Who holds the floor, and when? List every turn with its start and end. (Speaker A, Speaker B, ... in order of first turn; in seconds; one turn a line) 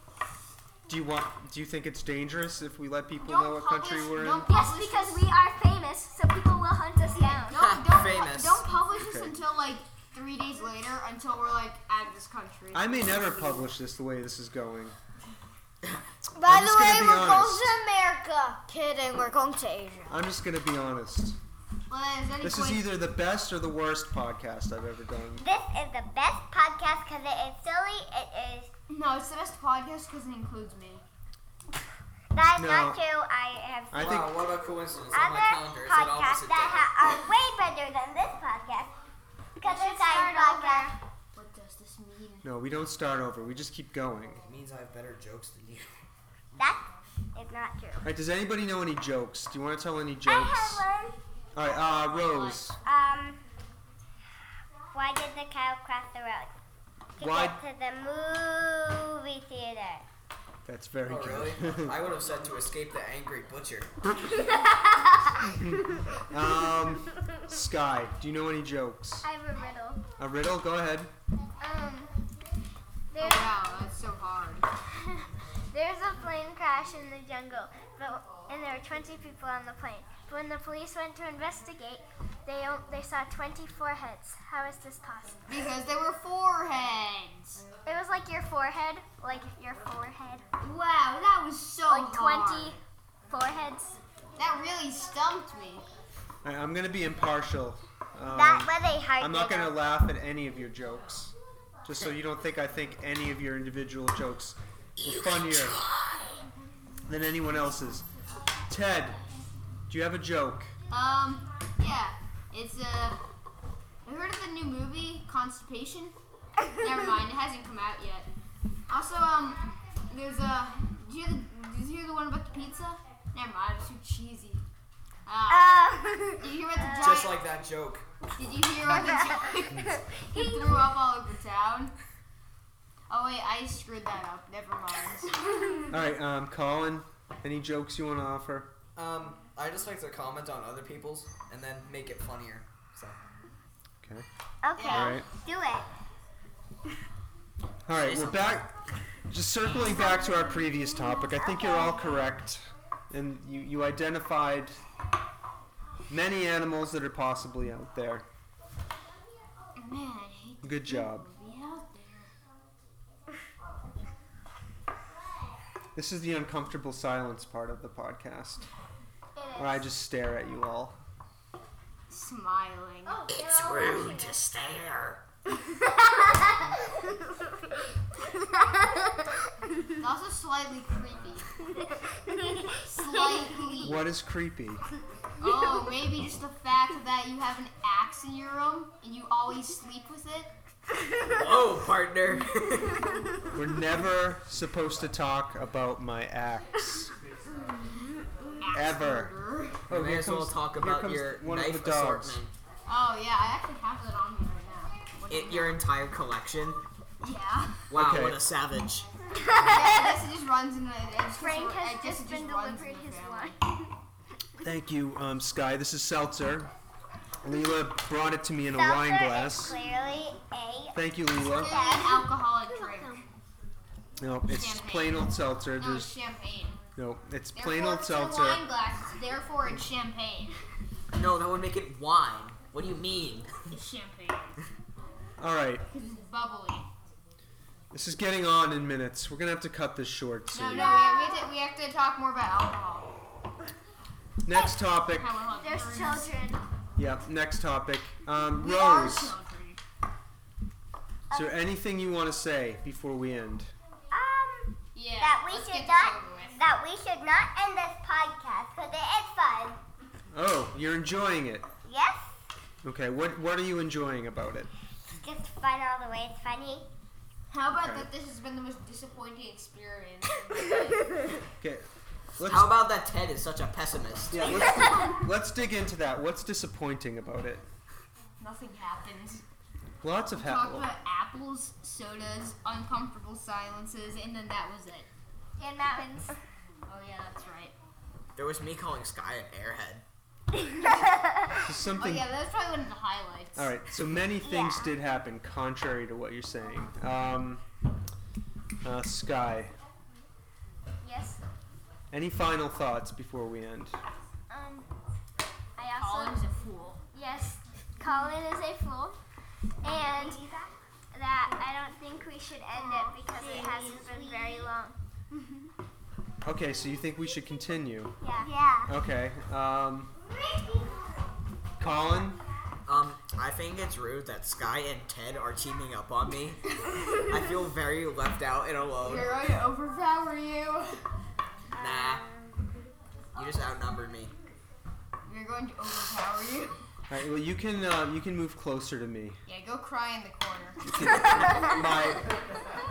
Speaker A: 0.9-4.5
Speaker B: 3.2-5.3
Speaker C: 4.5-7.7
Speaker B: 7.2-13.7
Speaker D: 7.5-8.7
Speaker A: 9.0-9.3
Speaker A: 12.7-15.0
Speaker E: 16.4-20.2
Speaker A: 16.4-17.8
Speaker A: 20.1-21.4
Speaker B: 21.9-22.9
Speaker A: 22.4-25.5
Speaker F: 25.4-28.7
Speaker B: 28.9-31.0
Speaker F: 32.3-34.3
Speaker A: 32.5-33.0
Speaker A: 33.9-34.4
Speaker D: 33.9-36.9
Speaker F: 35.1-38.9
Speaker F: 39.6-41.0
Speaker C: 39.7-40.9
Speaker B: 39.9-40.7
Speaker B: 41.3-42.5
Speaker A: 42.4-44.4
Speaker D: 44.4-46.0
Speaker F: 46.5-48.1
Speaker A: 48.0-50.8
Speaker F: 50.3-51.2
Speaker A: 51.5-52.8
Speaker B: 52.1-52.6
Speaker F: 52.8-53.4
Speaker F: 54.9-56.5
Speaker F: 57.2-60.0
Speaker A: 57.2-57.6
Speaker A: 60.7-62.0
Speaker D: 61.1-63.9
Speaker A: 66.3-69.3
Speaker C: 69.2-70.0
Speaker A: 70.2-71.1
Speaker C: 71.6-72.1
Speaker C: 73.1-73.6
Speaker B: 73.2-74.7
Speaker C: 75.7-85.4
Speaker B: 85.5-87.6
Speaker C: 87.8-90.5
Speaker B: 90.6-92.8
Speaker C: 91.9-94.0
Speaker B: 94.4-95.9
Speaker A: 96.4-101.3
Speaker F: 98.3-99.8
Speaker A: 101.8-105.8
Speaker D: 105.0-106.2
Speaker A: 107.1-108.1
Speaker A: 108.7-109.2
Speaker A: 109.9-110.7
Speaker B: 110.9-113.2
Speaker B: 114.1-116.2
Speaker B: 116.8-118.3
Speaker B: 118.9-124.6
Speaker B: 125.3-125.8
Speaker F: 125.5-127.3
Speaker B: 126.4-127.4
Speaker D: 127.0-128.1
Speaker B: 128.4-131.9
Speaker F: 128.9-129.4
Speaker F: 130.3-130.8
Speaker B: 133.1-135.4
Speaker A: 135.9-138.7
Speaker D: 139.0-143.2
Speaker F: 144.6-145.9
Speaker B: 144.8-145.2
Speaker A: 144.8-145.2
Speaker A: 147.9-148.7
Speaker D: 148.0-148.6
Speaker A: 149.3-154.8
Speaker F: 151.3-152.3
Speaker A: 156.1-158.3
Speaker B: 159.8-162.3
Speaker A: 160.6-161.3
Speaker A: 165.9-168.7
Speaker C: 169.4-169.8
Speaker A: 169.6-171.0
Speaker B: 172.1-173.2
Speaker C: 173.1-174.3
Speaker D: 173.3-175.2
Speaker F: 173.4-174.2
Speaker B: 180.0-181.5
Speaker F: 182.6-183.4
Speaker B: 182.8-184.0
Speaker A: 183.8-184.8
Speaker B: 185.4-190.5
Speaker D: 191.3-193.2
Speaker A: 193.5-197.1
Speaker B: 198.6-199.8
Speaker A: 198.7-199.3
Speaker A: 199.9-202.4
Speaker D: 199.9-202.5
Speaker B: 202.9-205.8
Speaker D: 205.3-206.8
Speaker B: 207.2-207.9
Speaker D: 207.9-209.1
Speaker A: 207.9-208.4
Speaker F: 209.5-209.9
Speaker B: 209.7-213.6
Speaker C: 211.3-213.9
Speaker A: 214.6-216.7
Speaker A: 217.4-219.8
Speaker F: 218.7-222.3
Speaker A: 220.9-221.8
Speaker B: 221.4-223.2
Speaker C: 221.9-223.2
Speaker A: 224.2-226.1
Speaker B: 224.5-226.8
Speaker A: 227.0-228.7
Speaker B: 227.5-230.6
Speaker D: 231.1-233.5
Speaker B: 233.7-234.6
Speaker A: 235.4-235.8
Speaker B: 235.9-236.9
Speaker A: 237.9-240.9
Speaker B: 240.5-243.1
Speaker C: 240.7-241.5
Speaker A: 244.4-245.3
Speaker B: 245.2-246.3
Speaker C: 245.6-246.6
Speaker A: 247.0-249.4
Speaker B: 248.6-249.8
Speaker A: 251.3-253.7
Speaker F: 254.1-259.8
Speaker B: 254.9-256.6
Speaker A: 260.3-261.7
Speaker F: 261.9-262.4
Speaker A: 262.8-264.7
Speaker F: 265.1-266.9
Speaker B: 267.5-271.1
Speaker A: 267.7-268.1
Speaker A: 271.6-272.8
Speaker D: 272.4-274.9
Speaker A: 274.3-277.6
Speaker B: 278.4-279.4
Speaker A: 280.0-280.9
Speaker B: 280.4-285.1
Speaker C: 285.6-286.4
Speaker B: 286.9-287.7
Speaker D: 288.4-290.0
Speaker A: 291.6-292.3
Speaker B: 292.0-293.7
Speaker A: 293.6-297.6
Speaker F: 294.4-294.9
Speaker A: 298.8-299.8
Speaker C: 301.0-301.4
Speaker A: 302.1-304.0
Speaker C: 304.5-304.9
Speaker C: 305.8-306.4
Speaker B: 306.0-307.0
Speaker C: 307.1-309.2
Speaker C: 309.8-310.4
Speaker F: 309.9-310.6
Speaker C: 311.1-315.0
Speaker F: 312.8-314.7
Speaker A: 316.4-318.1
Speaker C: 318.2-318.5
Speaker F: 318.4-318.8
Speaker E: 318.5-318.9
Speaker A: 318.9-320.1
Speaker A: 321.8-322.4
Speaker D: 322.9-329.4
Speaker B: 329.0-331.0
Speaker F: 331.7-332.6
Speaker D: 331.8-332.2
Speaker D: 333.4-334.3
Speaker B: 335.3-336.8
Speaker A: 337.1-339.4
Speaker B: 339.5-340.8
Speaker A: 340.9-342.3